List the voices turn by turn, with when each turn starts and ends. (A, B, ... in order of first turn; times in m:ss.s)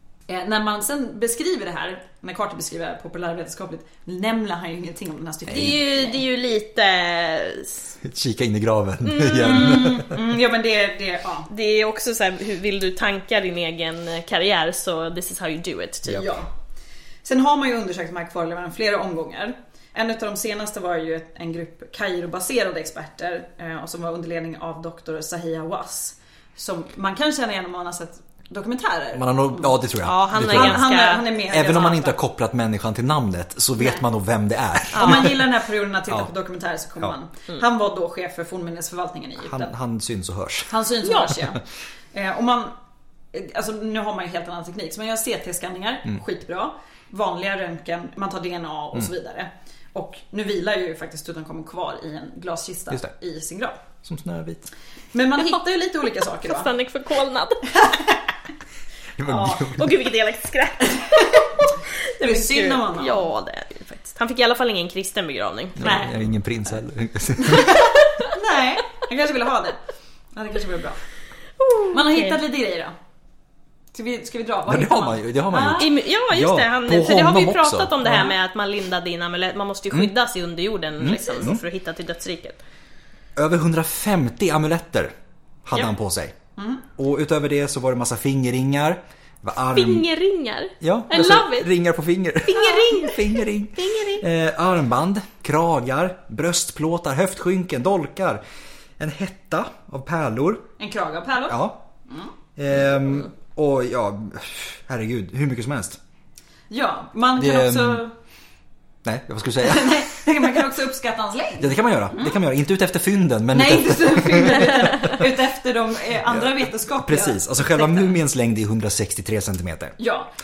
0:00.3-0:06.2 A
0:05.5-0:08.0 B
0:05.5-0:05.8 C
0:08.0-0:10.2 C
0:09.0-0:09.9 B
0:09.4-0:11.5 A
0:11.5-0:16.4 B
0:16.1-0:16.5 A
0:17.2-0:29.8 A
0:29.2-0:30.9 C
0:30.0-0:31.3 B
0:30.3-0:32.2 A
0:31.5-0:35.4 C
0:33.8-0:34.0 A
0:34.9-0:39.7 A
0:34.9-0:35.4 B
0:39.4-0:40.8 C
0:40.7-0:42.8 A
0:43.3-0:53.8 A
0:54.0-0:54.7 C
0:55.1-0:56.7 A
0:56.5-0:57.8 B
0:57.7-0:58.2 A
0:59.2-1:00.0 C
0:59.3-1:06.0 B
1:01.0-1:01.5 A
1:02.2-1:03.2 A
1:05.8-1:08.0 C
1:05.8-1:06.2 A
1:07.4-1:09.8 A
1:10.3-1:11.0 A
1:11.6-1:12.4 B
1:11.9-1:12.9 A
1:13.9-1:15.9 A
1:14.7-1:18.3 C
1:15.8-1:22.6 B
1:21.0-1:21.6 C
1:23.4-1:25.1 C
1:25.6-1:26.4 C
1:26.6-1:26.8 A
1:27.0-1:30.1 C
1:29.8-1:31.7 B
1:30.8-1:38.4 C
1:32.5-1:34.2 B
1:39.0-1:40.7 C
1:40.8-1:42.3 A
1:41.5-1:41.8 C
1:42.6-1:46.0 C
1:46.7-1:48.2 A
1:47.4-1:48.0 C
1:49.0-1:50.3 C
1:49.6-1:52.4 A
1:51.6-1:55.2 C
1:53.5-1:58.1 A
1:56.3-2:00.0 C
2:00.0-2:00.3 A